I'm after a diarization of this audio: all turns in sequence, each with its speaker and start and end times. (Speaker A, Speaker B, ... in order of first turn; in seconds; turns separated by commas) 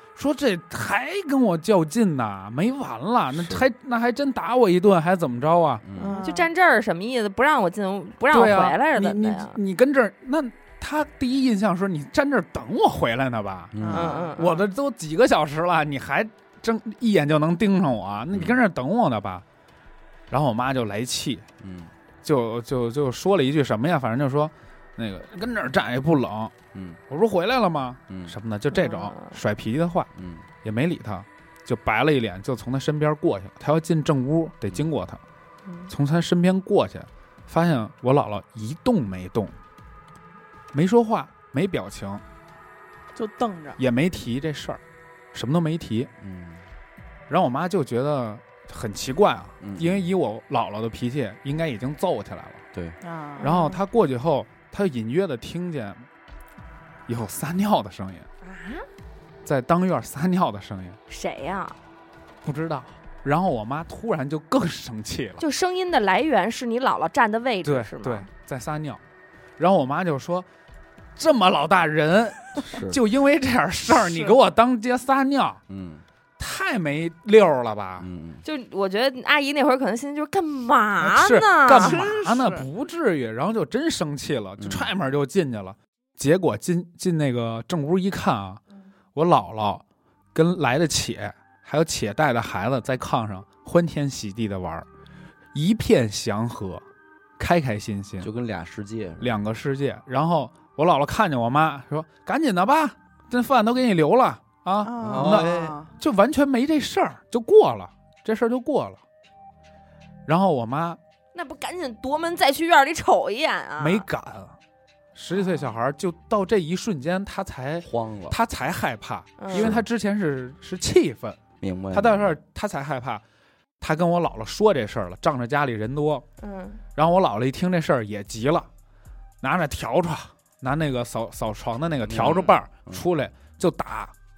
Speaker A: 0.1-5.8, Speaker B: 3.3-3.6, Speaker B: 5.8-6.2, Speaker C: 6.0-6.5, Speaker D: 6.0-9.6, Speaker A: 8.3-13.8, Speaker B: 13.7-14.1, Speaker C: 13.8-14.3, Speaker D: 13.9-14.7, Speaker A: 14.4-19.4, Speaker B: 18.3-18.6, Speaker A: 20.3-21.4, Speaker B: 21.6-21.9, Speaker A: 22.2-26.5, Speaker B: 26.7-27.0, Speaker A: 27.1-30.1, Speaker B: 28.1-28.4, Speaker D: 28.7-29.4, Speaker B: 30.1-30.4, Speaker A: 30.6-35.2, Speaker D: 35.6-35.9, Speaker A: 35.9-39.5, Speaker A: 40.7-42.2, Speaker C: 43.1-43.8, Speaker A: 43.8-44.8, Speaker A: 45.3-46.1, Speaker B: 46.2-46.6, Speaker A: 47.3-52.6, Speaker B: 49.6-50.1, Speaker B: 52.7-53.0, Speaker C: 53.0-53.5, Speaker D: 53.4-53.8, Speaker A: 53.4-56.0, Speaker A: 57.1-58.3, Speaker D: 58.4-58.9, Speaker A: 59.4-61.0, Speaker D: 61.1-61.8, Speaker A: 62.4-65.4, Speaker D: 65.4-68.3, Speaker A: 67.6-69.0, Speaker A: 69.6-70.5, Speaker A: 71.2-75.6, Speaker B: 72.7-73.0, Speaker C: 73.9-74.3, Speaker B: 75.7-76.0, Speaker A: 76.4-78.1, Speaker B: 78.0-78.4, Speaker D: 78.4-82.0, Speaker A: 81.0-88.6, Speaker C: 81.8-82.7, Speaker B: 84.6-84.9, Speaker A: 89.1-89.8, Speaker A: 90.3-94.9, Speaker A: 95.5-96.8, Speaker A: 97.4-98.3, Speaker B: 98.2-99.3, Speaker A: 99.2-109.0, Speaker C: 104.8-105.9, Speaker B: 105.0-105.8, Speaker A: 110.2-111.0, Speaker D: 111.3-114.0, Speaker A: 113.8-114.6, Speaker A: 115.1-123.2, Speaker B: 117.8-118.4, Speaker D: 119.4-119.7, Speaker B: 119.5-119.9, Speaker B: 121.6-122.4, Speaker A: 123.8-126.2, Speaker D: 126.4-126.8, Speaker A: 127.0-128.7, Speaker A: 129.4-134.1, Speaker B: 132.0-133.0